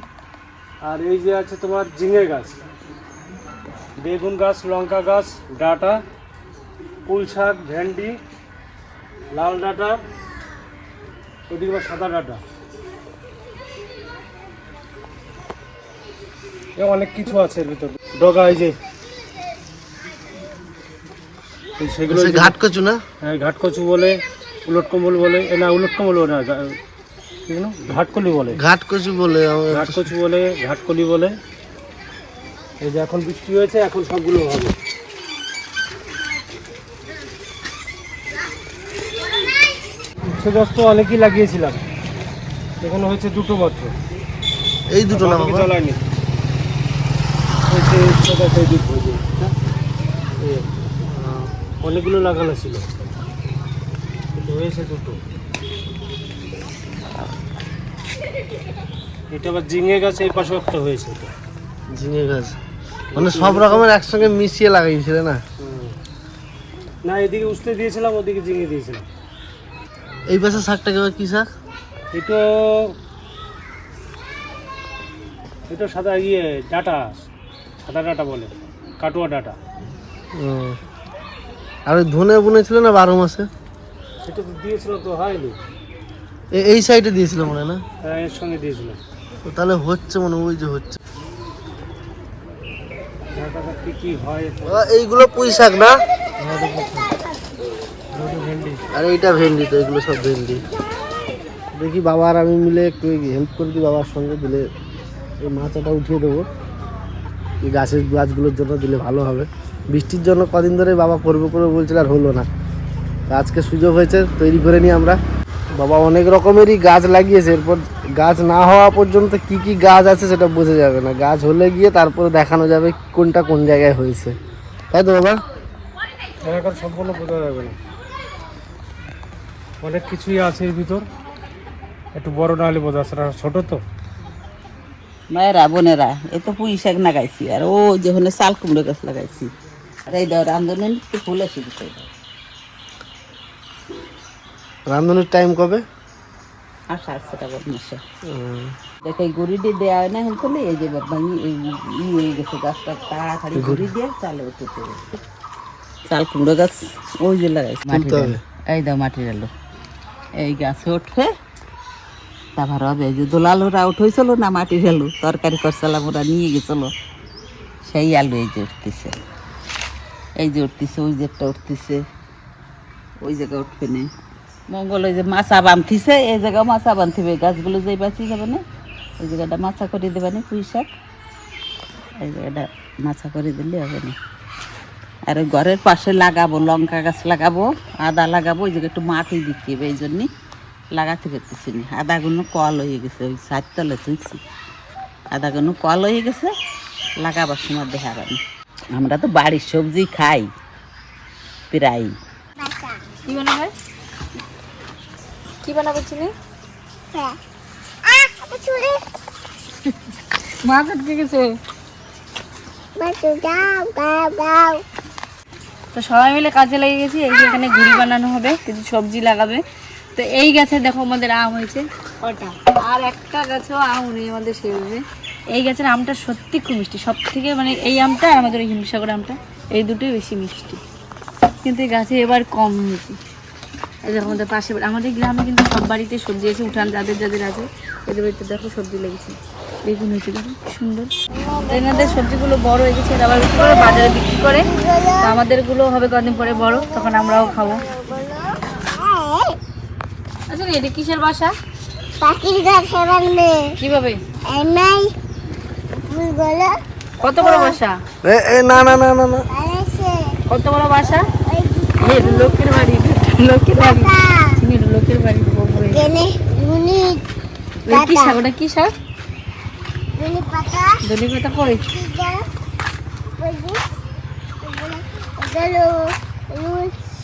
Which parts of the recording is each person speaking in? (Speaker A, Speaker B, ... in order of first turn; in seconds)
Speaker A: 0.8-2.6, 4.0-6.0, 7.1-8.2, 9.3-10.0, 11.5-12.4, 16.8-18.8, 21.8-22.5, 23.2-26.8, 27.5-28.6, 29.7-31.4, 32.8-34.8, 40.3-41.8, 42.8-44.0, 45.1-46.0, 47.7-49.5, 50.4-50.9, 51.8-53.1, 54.3-55.2, 59.3-61.3, 63.1-63.9, 65.6-66.0, 67.0-69.1, 72.1-73.0, 75.7-77.3, 77.8-79.6, 84.2-85.6, 88.0-89.0, 93.3-94.8, 96.4-97.1, 98.1-98.8, 126.5-127.8, 129.8-131.1, 132.1-133.8
Speaker B: 22.1-23.0, 28.6-30.1, 44.9-45.7, 51.1-51.5, 62.0-62.6, 63.2-65.4, 70.3-71.5, 80.4-80.8, 81.9-83.5, 86.5-87.8, 89.5-91.0, 94.7-96.0, 98.9-100.6, 101.8-104.7, 105.4-106.5, 107.7-112.5, 113.3-115.2, 115.8-124.4, 124.9-125.4, 144.9-145.8, 148.3-148.7, 153.6-153.9, 157.9-158.4, 258.2-259.4
Speaker C: 135.3-139.5, 140.1-142.1, 146.9-148.0, 149.0-155.0, 156.1-159.5, 160.4-161.3, 162.6-166.9, 167.9-169.2, 170.4-172.0, 173.2-174.1, 174.7-178.6, 179.2-180.9, 182.2-184.2, 185.3-190.3, 190.9-194.4, 195.3-196.5, 197.2-198.4, 198.9-200.5, 201.7-202.1
Speaker D: 202.6-203.0, 208.1-209.0, 213.0-214.8, 241.3-242.2, 243.5-245.4, 246.3-249.6, 252.2-253.7, 254.5-255.1, 256.1-256.7, 257.3-257.8, 259.5-260.4, 261.0-262.9, 263.8-264.5, 265.9-267.2, 267.9-268.4, 270.2-270.9, 271.8-272.4, 273.4-273.9, 274.6-277.0
Speaker E: 203.3-203.7, 205.6-206.3, 210.6-211.5, 215.9-219.6, 220.2-230.8, 231.6-233.2, 234.1-241.1, 241.7-244.7, 245.2-247.8, 250.5-251.5, 253.8-254.2, 257.2-258.0, 260.5-261.3, 262.0-266.0, 267.9-268.9, 271.0-271.9